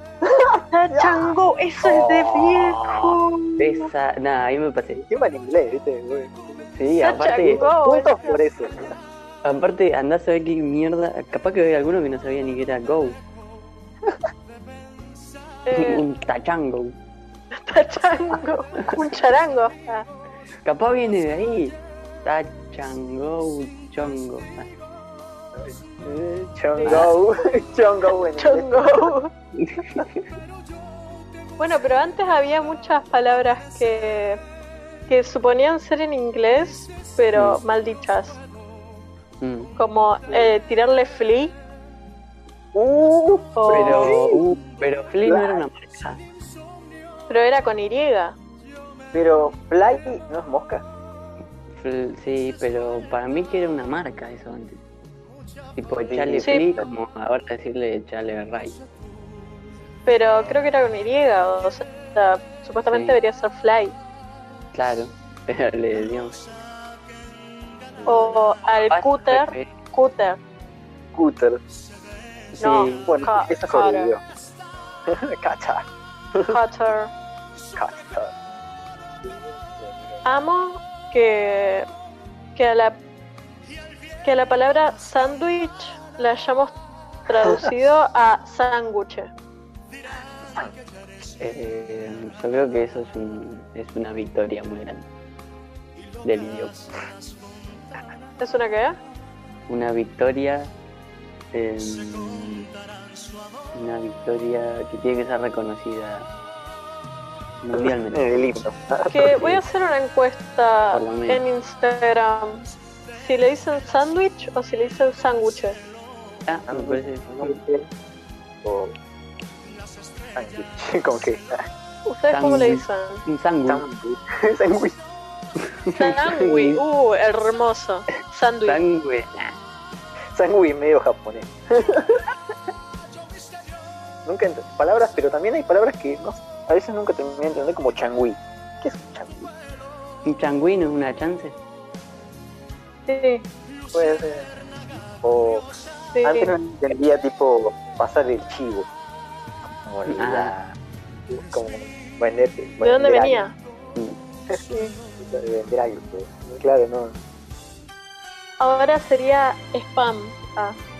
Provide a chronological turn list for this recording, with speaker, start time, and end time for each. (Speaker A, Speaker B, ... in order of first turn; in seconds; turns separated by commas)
Speaker A: 0.2-1.3, Speaker B: 0.7-3.8, Speaker A: 1.8-3.2, Speaker C: 3.6-5.0, Speaker A: 5.1-6.7, Speaker C: 6.7-7.7, Speaker B: 7.0-8.4, Speaker A: 7.5-8.9, Speaker C: 9.4-13.2, Speaker B: 15.7-16.0, Speaker C: 15.7-16.9, Speaker B: 17.5-20.1, Speaker C: 20.6-24.7, Speaker A: 25.5-29.1, Speaker B: 26.8-27.0, Speaker C: 26.8-27.1, Speaker B: 28.4-29.3, Speaker C: 29.6-30.1, Speaker B: 31.6-34.4, Speaker B: 35.1-38.4, Speaker C: 39.4-39.7, Speaker B: 39.8-41.6, Speaker A: 40.3-40.6, Speaker A: 42.7-44.4, Speaker B: 43.6-44.4, Speaker C: 43.7-46.2, Speaker A: 45.2-45.6, Speaker B: 47.3-48.4, Speaker A: 49.1-50.8, Speaker C: 51.7-54.8, Speaker C: 55.8-58.8, Speaker A: 56.1-56.9, Speaker B: 60.0-64.0, Speaker C: 62.9-63.2, Speaker C: 64.7-66.5, Speaker A: 68.0-68.3, Speaker B: 68.0-70.4, Speaker C: 68.9-69.7, Speaker A: 71.1-71.6, Speaker C: 72.6-73.1, Speaker B: 72.6-74.2, Speaker A: 73.1-74.2, Speaker A: 75.1-76.5, Speaker B: 76.5-77.1, Speaker A: 77.8-78.3, Speaker A: 79.2-80.2, Speaker B: 80.2-81.9, Speaker B: 82.5-83.0, Speaker B: 84.2-89.3, Speaker C: 91.4-95.1, Speaker C: 96.2-96.8, Speaker B: 98.4-99.0, Speaker C: 99.7-100.7, Speaker C: 101.5-102.7, Speaker C: 103.7-106.3, Speaker C: 107.6-108.5, Speaker A: 107.7-109.3, Speaker B: 109.1-115.8, Speaker C: 109.2-109.6, Speaker C: 110.9-111.4, Speaker C: 116.5-117.6, Speaker A: 116.7-117.9, Speaker A: 118.6-118.9, Speaker A: 120.3-121.7, Speaker B: 122.1-123.2, Speaker C: 122.3-123.8, Speaker A: 123.7-125.0, Speaker C: 125.6-126.8, Speaker B: 125.9-128.8, Speaker C: 128.7-129.5, Speaker A: 130.3-132.3, Speaker A: 134.2-139.5, Speaker C: 140.2-141.6, Speaker B: 143.1-143.4, Speaker A: 143.9-144.5, Speaker A: 145.2-145.7, Speaker B: 146.1-146.5, Speaker A: 146.2-148.9, Speaker A: 149.7-150.8, Speaker C: 150.1-150.5, Speaker A: 151.3-153.4, Speaker B: 152.8-153.5, Speaker B: 154.7-154.9, Speaker A: 155.2-157.2, Speaker B: 158.6-160.8